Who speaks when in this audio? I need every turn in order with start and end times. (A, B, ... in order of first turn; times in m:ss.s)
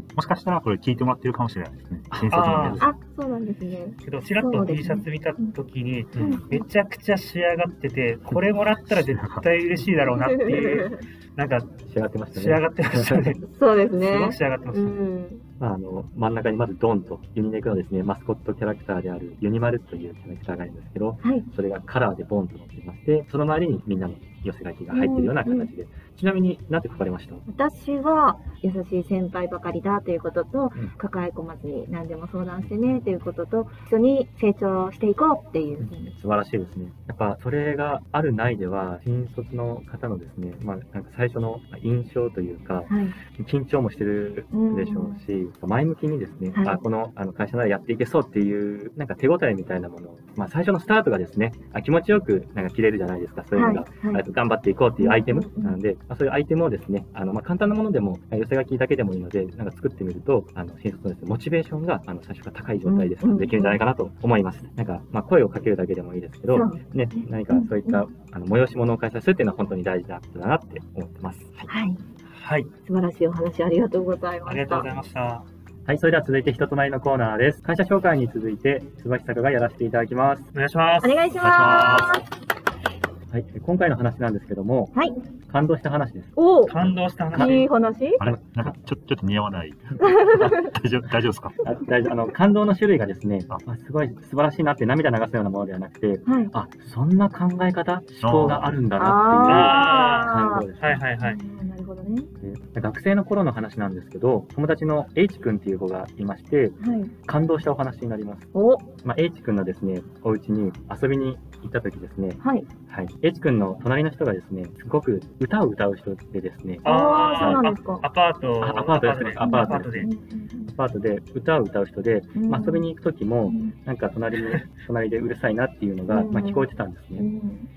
0:00.2-0:02.9 A
0:02.1-0:02.8 B
0:02.3-0:02.8 C
0:02.8-0:05.5 D
0:04.0-0:11.8 C
0:06.2-0:06.4 B
0:06.2-0:06.4 D
0:08.3-0:09.4 A
0:10.2-0:11.0 D
0:11.9-0:13.2 B
0:12.3-0:13.4 C
0:13.4-0:15.4 D
0:14.0-0:15.0 C
0:15.6-0:27.4 B
0:24.9-0:25.7 D
0:27.5-0:36.1 D
0:35.8-1:11.7 B
0:42.9-0:43.2 D
0:44.5-0:45.2 D
0:46.6-0:46.8 D
0:53.5-0:54.2 D
0:55.0-0:55.8 D
1:02.8-1:03.8 D
1:06.5-1:06.8 D
1:07.3-1:08.1 D
1:11.7-1:12.0 D
1:12.4-1:12.7 C
1:12.9-1:14.9 D
1:14.5-1:15.4 C
1:15.9-1:20.5 B
1:20.5-1:21.4 C
1:21.0-1:22.2 D
1:21.4-1:22.1 A
1:23.3-1:25.0 B
1:25.5-1:27.7 B
1:26.4-1:26.8 D
1:26.7-1:27.7 C
1:27.3-1:28.2 D
1:28.2-1:31.7 A
1:28.2-1:28.7 B
1:30.0-1:30.6 D
1:31.6-1:41.0 B
1:36.3-1:36.5 D
1:38.2-1:38.7 A
1:39.0-1:40.7 D
1:39.5-1:41.4 C
1:41.2-1:42.3 D
1:42.4-1:48.5 B
1:46.8-1:47.1 D
1:48.5-1:48.9 D
1:49.0-1:57.7 B
1:52.4-1:52.7 D
1:56.8-2:00.1 C
1:56.8-1:58.0 D
1:58.6-2:00.1 B
1:59.4-2:00.7 D
2:00.7-2:07.3 B
2:02.4-2:02.9 D
2:06.1-2:07.7 D